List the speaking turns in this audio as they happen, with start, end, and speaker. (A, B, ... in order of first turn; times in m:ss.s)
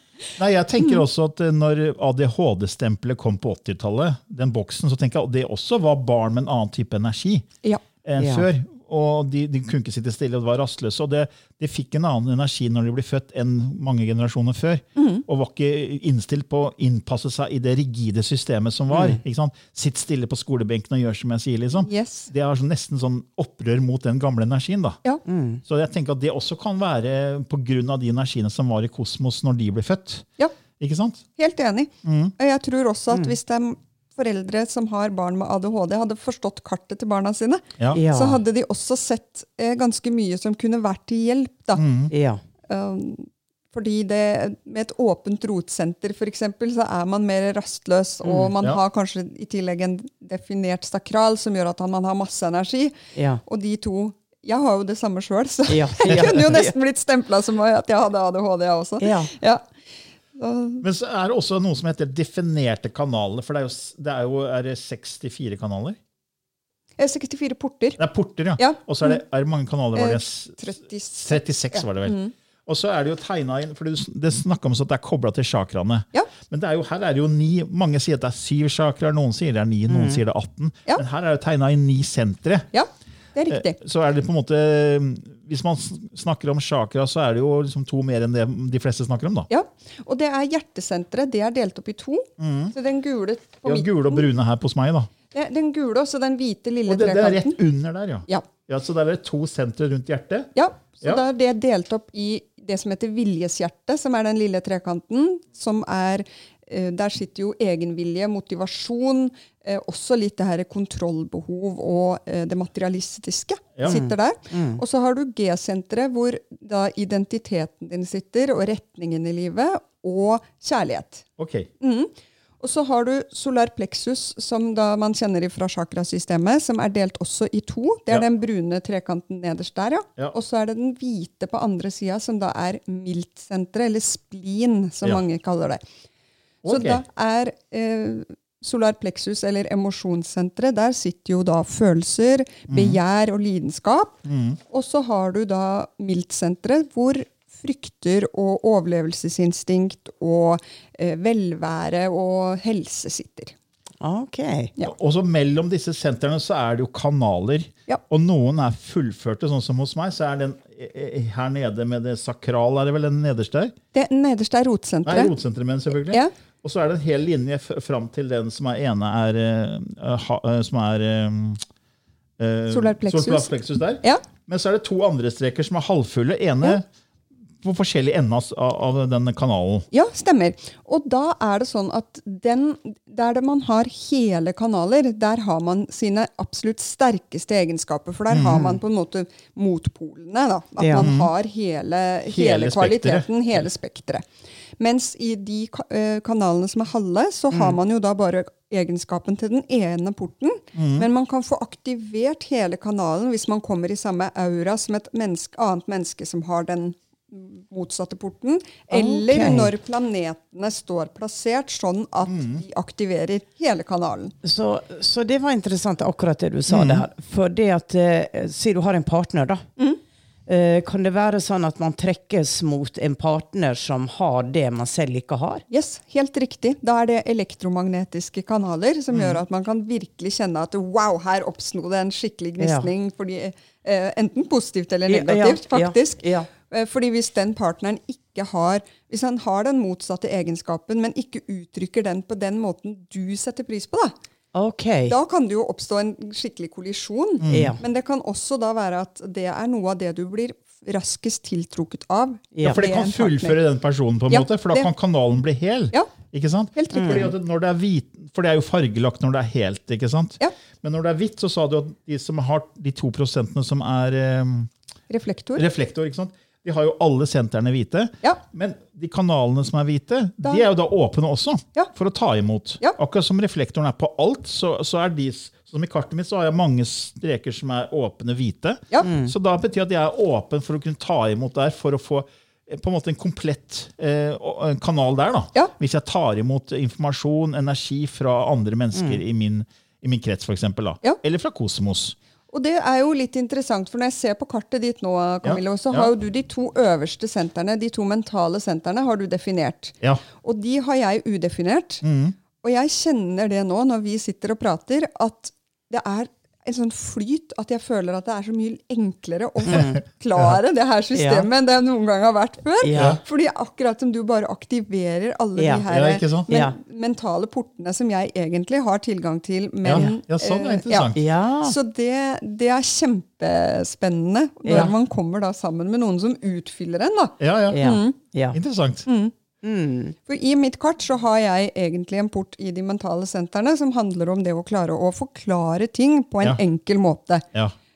0:00.4-0:07.5 A
0:00.8-0:01.0 B
0:08.0-0:25.0 A
0:08.2-0:08.5 C
0:15.0-0:15.2 B
0:18.9-0:19.2 C
0:21.8-0:22.3 B
0:25.3-0:25.6 C
0:25.7-0:30.3 A
0:30.8-0:31.2 A
0:31.4-0:41.8 B
0:32.0-0:32.3 A
0:37.9-0:38.4 C
0:41.8-0:42.1 A
0:42.1-0:42.4 C
0:42.7-0:59.6 B
0:48.2-0:48.6 C
0:53.2-0:53.4 C
0:55.7-0:56.7 C
0:56.1-0:56.4 A
0:59.0-0:59.3 C
1:00.4-1:00.8 B
1:00.8-1:06.0 A
1:07.0-1:08.0 B
1:08.0-1:10.6 A
1:08.6-1:09.2 B
1:10.0-1:12.3 B
1:11.2-1:22.7 A
1:19.9-1:20.2 C
1:22.7-1:23.8 B
1:23.5-1:29.5 A
1:29.5-1:34.2 B
1:32.4-1:32.7 A
1:33.6-1:35.1 A
1:35.3-1:37.6 B
1:36.9-1:41.2 A
1:40.6-2:01.3 B
1:53.9-1:54.8 C
2:01.4-2:01.7 A
2:01.8-2:15.8 B
2:16.6-2:17.0 A
2:16.7-2:24.2 B
2:22.7-2:23.0 A
2:24.2-2:24.6 A
2:24.7-2:33.5 B
2:34.0-2:34.7 C
2:34.8-2:43.8 A
2:43.9-2:45.4 B
2:45.0-2:51.6 A
2:52.4-2:56.8 A
2:52.7-2:53.5 B
2:57.6-2:59.9 A
2:59.9-3:14.3 B
3:08.3-3:08.6 A
3:08.5-3:08.8 C
3:10.8-3:11.1 C
3:11.0-3:11.3 A
3:12.3-3:13.6 A
3:14.8-3:34.4 B
3:17.5-3:17.8 C
3:20.8-3:21.1 A
3:28.9-3:29.7 C
3:32.3-3:32.6 A
3:34.4-3:39.6 C
3:36.7-3:37.0 A
3:40.5-3:45.6 C
3:45.7-4:04.1 B
3:49.1-3:49.4 A
3:52.6-3:52.9 C
3:55.1-3:56.5 C
4:04.5-4:05.2 C
4:05.1-4:13.6 B
4:07.4-4:07.8 A
4:07.5-4:07.8 C
4:12.6-4:12.8 C
4:12.6-4:24.7 A
4:14.3-4:14.9 B
4:16.8-4:17.3 B
4:16.9-4:17.3 C
4:25.1-4:25.6 B
4:25.6-4:52.2 A
4:39.0-4:39.3 C
4:48.9-4:49.2 C
4:52.5-5:02.0 B
4:55.4-4:56.1 A
5:02.0-5:02.4 A
5:02.6-5:21.1 B
5:09.7-5:10.0 C
5:11.1-5:11.5 C
5:12.8-5:13.2 C
5:13.0-5:13.2 A
5:15.6-5:15.9 C
5:15.9-5:16.5 A
5:16.5-5:16.8 C
5:19.8-5:21.2 A
5:21.2-5:21.8 C
5:21.6-5:28.2 B
5:24.6-5:25.0 C
5:27.4-5:27.8 A
5:27.7-5:28.6 C
5:28.5-5:29.0 A
5:29.1-5:29.3 B
5:29.6-5:30.2 C
5:30.3-5:37.5 B